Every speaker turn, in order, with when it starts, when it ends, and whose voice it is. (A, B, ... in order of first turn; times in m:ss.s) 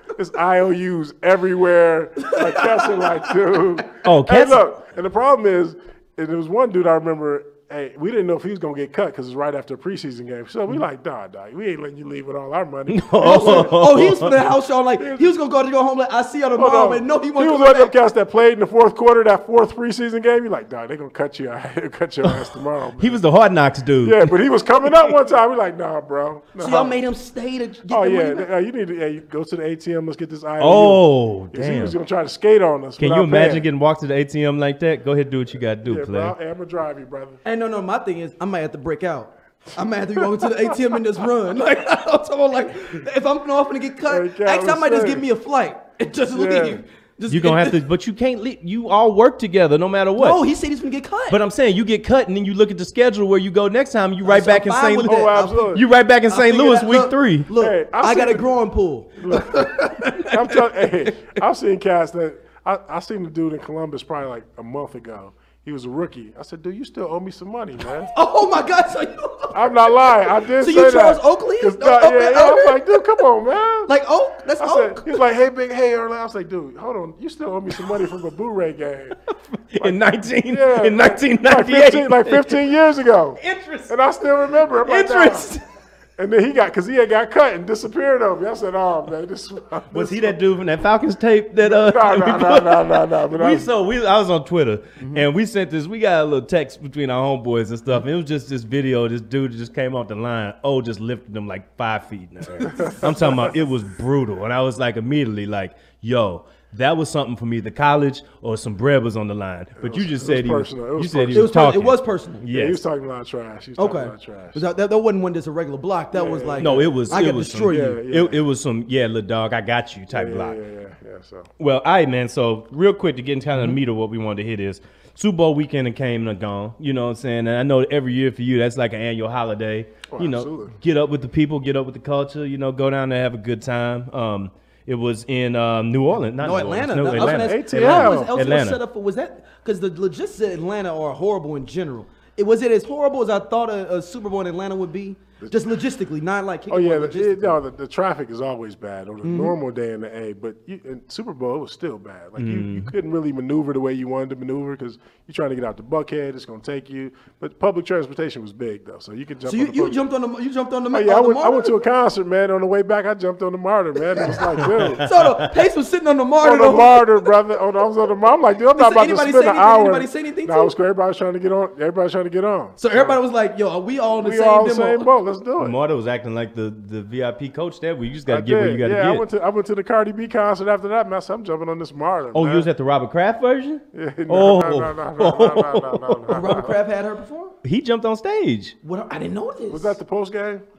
0:00.1-0:14.0 A
0:02.2-0:03.3 B
0:04.0-0:04.6 C
0:12.9-0:14.4 C
0:13.2-0:17.9 B
0:15.0-0:15.3 A
0:16.6-0:23.2 A
0:22.2-0:25.2 C
0:24.0-0:27.0 A
0:26.6-0:28.5 B
0:27.9-0:33.6 A
0:30.6-0:31.9 C
0:33.0-0:36.3 C
0:35.8-0:37.4 A
0:37.4-0:47.8 B
0:40.2-0:40.9 A
0:44.0-0:45.2 A
0:46.3-0:46.8 A
0:47.3-0:50.4 C
0:50.2-0:51.4 B
0:51.3-0:57.5 C
0:54.2-0:55.7 B
0:55.0-0:55.8 A
0:56.3-1:00.9 B
0:57.6-0:58.5 A
0:59.2-1:08.1 A
1:08.1-1:13.2 B
1:09.5-1:13.9 A
1:13.8-1:15.2 B
1:14.6-1:19.2 A
1:19.3-1:22.6 C
1:20.5-1:25.5 A
1:23.4-1:25.6 C
1:26.2-1:30.4 A
1:29.9-1:52.8 C
1:31.6-1:33.7 A
1:42.7-1:43.5 A
1:49.8-1:51.5 A
1:51.3-1:52.4 B
1:52.5-1:54.6 A
1:53.8-1:58.0 B
1:56.1-1:58.4 A
1:56.6-2:00.6 C
2:00.1-2:01.5 A
2:01.6-2:18.8 C
2:10.1-2:10.7 A
2:16.4-2:27.6 B
2:17.1-2:18.4 A
2:26.7-2:40.0 A
2:29.2-2:29.6 B
2:32.4-2:32.9 C
2:39.4-2:41.7 B
2:40.9-2:45.0 A
2:44.1-2:47.2 B
2:46.4-2:53.2 A
2:48.7-2:50.7 B
2:52.8-2:55.1 B
2:54.2-2:55.8 A
2:55.6-2:59.2 C
2:58.3-3:02.7 A
3:02.3-3:06.3 C
3:03.9-3:06.8 A
3:06.3-3:07.6 B
3:07.6-3:08.7 C
3:08.8-3:10.0 B
3:09.7-3:10.6 A